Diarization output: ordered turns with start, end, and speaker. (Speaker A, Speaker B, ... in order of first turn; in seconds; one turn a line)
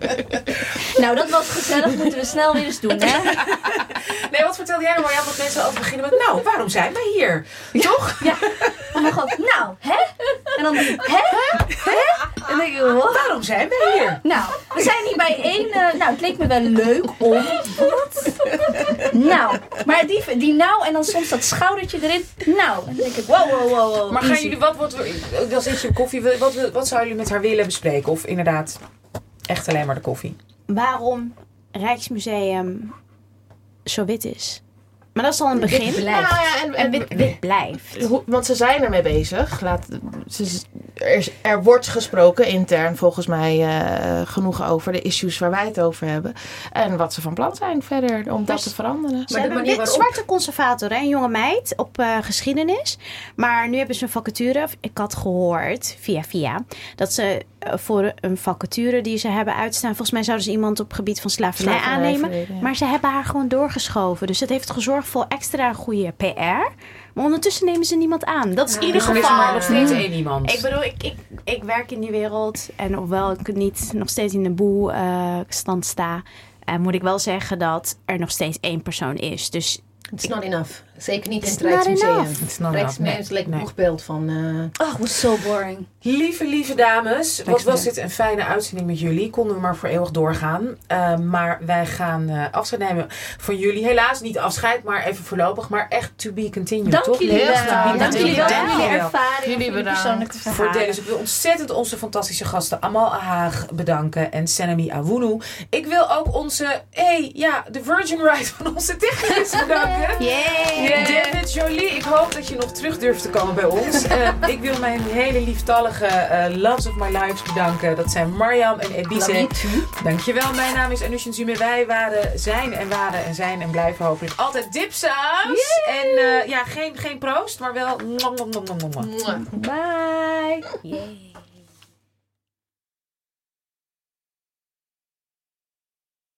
Speaker A: 0.9-3.4
Speaker B: 3.2-9.1
Speaker A: 7.7-13.4
Speaker B: 10.8-14.2
Speaker A: 14.2-24.6
Speaker B: 18.7-19.1
Speaker B: 23.3-28.8
Speaker B: 29.5-30.4
Speaker C: 30.7-32.9
Speaker C: 33.9-34.6
Speaker C: 35.1-36.1
Speaker D: 35.6-36.5
Speaker E: 35.9-37.4
Speaker C: 36.7-38.1
Speaker E: 37.9-49.3
Speaker D: 48.5-48.7
Speaker D: 49.3-50.2
Speaker C: 49.3-80.3
Speaker E: 61.6-62.7
Speaker D: 68.7-70.0
Speaker B: 68.9-70.6
Speaker D: 80.2-84.8
Speaker A: 81.4-82.3
Speaker B: 82.4-83.7
Speaker A: 84.8-85.9
Speaker B: 86.0-99.1
Speaker A: 87.5-87.8
Speaker A: 96.8-101.0
Speaker E: 97.2-100.3
Speaker D: 97.9-98.7
Speaker C: 98.0-98.9
Speaker B: 100.4-129.1
Speaker C: 110.2-111.0
Speaker D: 110.5-111.0
Speaker A: 110.8-111.4
Speaker D: 119.1-119.9
Speaker A: 125.4-126.4
Speaker D: 129.1-129.5
Speaker A: 129.3-131.0
Speaker C: 130.8-131.2